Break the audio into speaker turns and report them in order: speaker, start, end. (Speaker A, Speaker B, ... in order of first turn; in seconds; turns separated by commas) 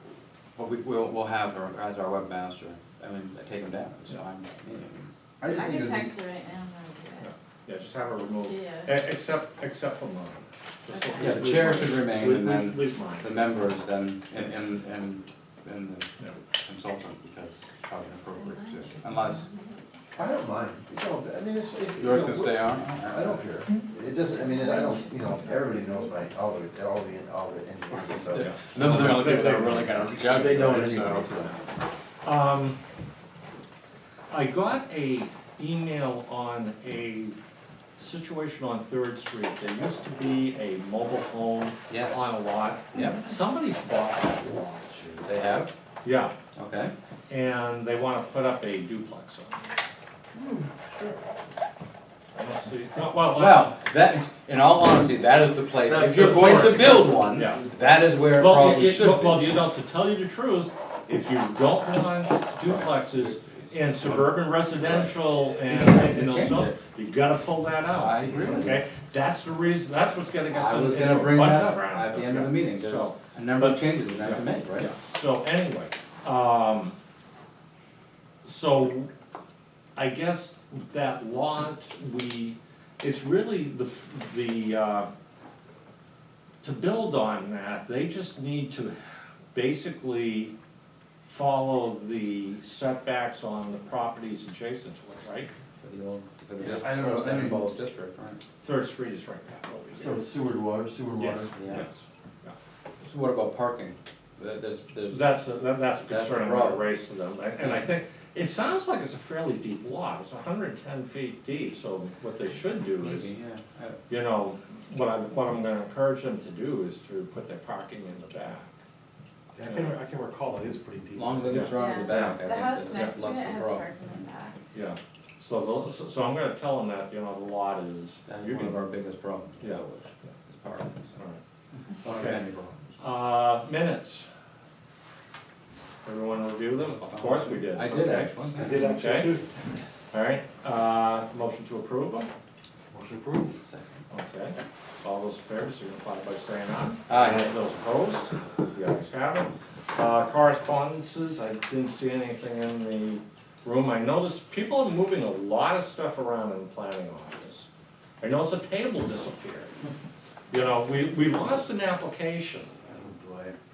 Speaker A: 0.6-5.1, Speaker B: 5.4-6.1, Speaker C: 5.5-7.3, Speaker D: 7.2-13.4, Speaker C: 8.0-9.0, Speaker C: 10.9-11.4, Speaker A: 11.2-19.4, Speaker C: 18.4-19.9, Speaker B: 20.1-31.6, Speaker A: 22.0-23.5, Speaker C: 24.4-26.1, Speaker A: 27.9-31.5, Speaker D: 28.3-29.6, Speaker D: 32.2-32.8, Speaker D: 34.3-37.4, Speaker D: 38.0-44.9, Speaker A: 41.9-42.4, Speaker A: 42.9-43.2, Speaker B: 44.8-45.3, Speaker A: 45.2-45.7, Speaker D: 46.0-46.4, Speaker A: 46.6-46.9, Speaker D: 47.3-49.7, Speaker B: 50.4-51.2, Speaker D: 52.4-53.7, Speaker A: 53.3-59.6, Speaker D: 56.1-57.7, Speaker D: 58.3-77.0, Speaker A: 65.5-66.8, Speaker A: 68.0-68.8, Speaker A: 70.5-74.9, Speaker D: 78.5-79.1, Speaker D: 80.0-85.1, Speaker D: 86.6-89.0, Speaker D: 89.5-90.5, Speaker D: 91.3-95.5, Speaker A: 95.8-98.4, Speaker B: 96.6-97.7, Speaker D: 98.6-100.2, Speaker B: 100.0-101.6, Speaker D: 101.2-102.5, Speaker A: 101.5-101.8, Speaker A: 103.0-105.4, Speaker D: 105.1-113.3, Speaker A: 106.0-106.9, Speaker A: 107.6-107.9, Speaker A: 113.0-114.0, Speaker D: 114.1-118.7, Speaker E: 119.6-121.7, Speaker D: 119.6-120.0, Speaker A: 121.1-124.2, Speaker D: 121.5-122.4, Speaker C: 121.7-124.6, Speaker D: 122.9-123.2, Speaker D: 124.7-128.9, Speaker A: 128.3-131.2, Speaker D: 130.7-131.4, Speaker A: 131.9-133.0, Speaker D: 132.1-132.4, Speaker D: 133.0-134.3, Speaker D: 136.0-139.3, Speaker A: 137.0-139.0, Speaker E: 138.6-139.7, Speaker D: 140.1-142.3, Speaker A: 143.3-144.0, Speaker D: 144.1-157.7, Speaker A: 147.1-147.5, Speaker D: 158.2-159.8, Speaker D: 160.5-162.7, Speaker E: 162.9-163.5